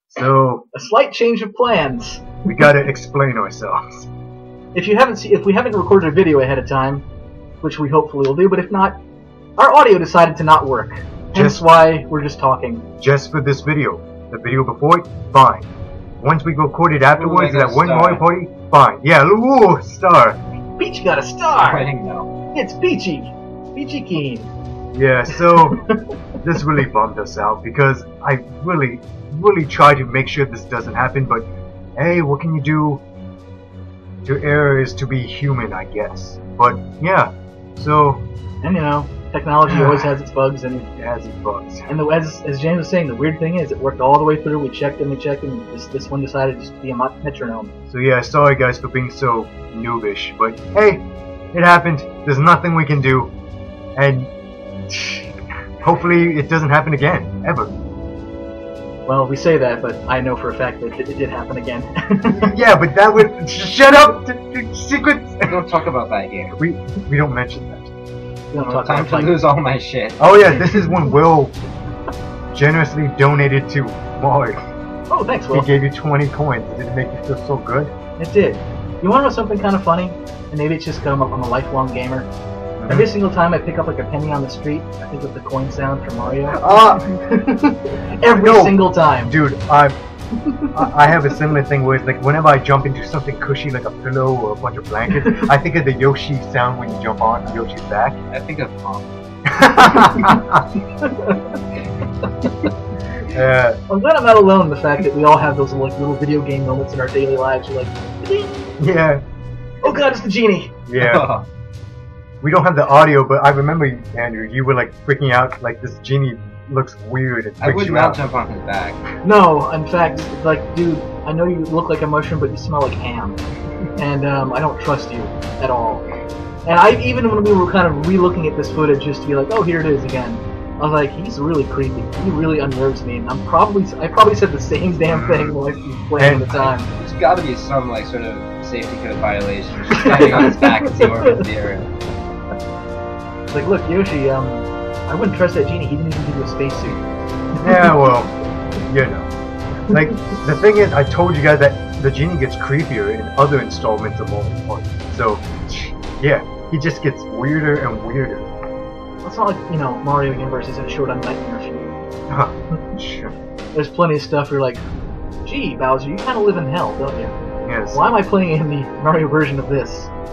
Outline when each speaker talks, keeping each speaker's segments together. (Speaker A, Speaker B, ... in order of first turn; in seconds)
Speaker A: 0.1-0.7, 2.5-4.1, 11.3-11.7, 13.0-20.4, 24.9-25.8, 26.4-33.0, 34.2-38.2, 39.7-40.1, 40.9-41.9, 47.9-53.3, 54.0-54.3, 54.9-55.3, 55.8-57.7, 62.3-65.7, 66.6-67.9, 70.2-71.6, 72.5-74.6, 75.5-77.9, 82.8-83.1, 86.5-87.1, 88.2-90.0, 90.8-98.2, 99.6-100.6, 103.3-103.8, 108.8-109.2, 110.9-111.3, 112.4-118.2, 135.1-135.6, 136.2-136.6, 147.6-148.3, 148.9-149.3, 149.9-158.5, 162.3-163.3, 167.7-168.1
Speaker B: 0.7-2.4, 4.7-7.0, 7.6-9.0, 9.6-12.9, 20.8-21.9, 22.5-24.5, 25.3-26.0, 38.6-40.9, 41.9-47.7, 59.1-62.5, 68.5-69.4, 70.5-71.2, 75.1-75.7, 78.2-82.3, 82.9-89.3, 90.4-90.7, 101.0-101.6, 103.9-108.6, 109.8-110.8, 119.2-123.4, 124.0-126.0, 126.7-136.9, 140.1-141.4, 143.5-147.1, 147.6-147.9, 149.9-150.2, 159.2-162.0, 163.7-164.8, 165.4-167.3, 167.9-170.1
Speaker C: 17.1-18.3, 21.6-22.3, 65.5-66.5, 68.6-70.2, 98.3-99.1, 111.0-111.5, 117.6-119.0, 136.6-141.9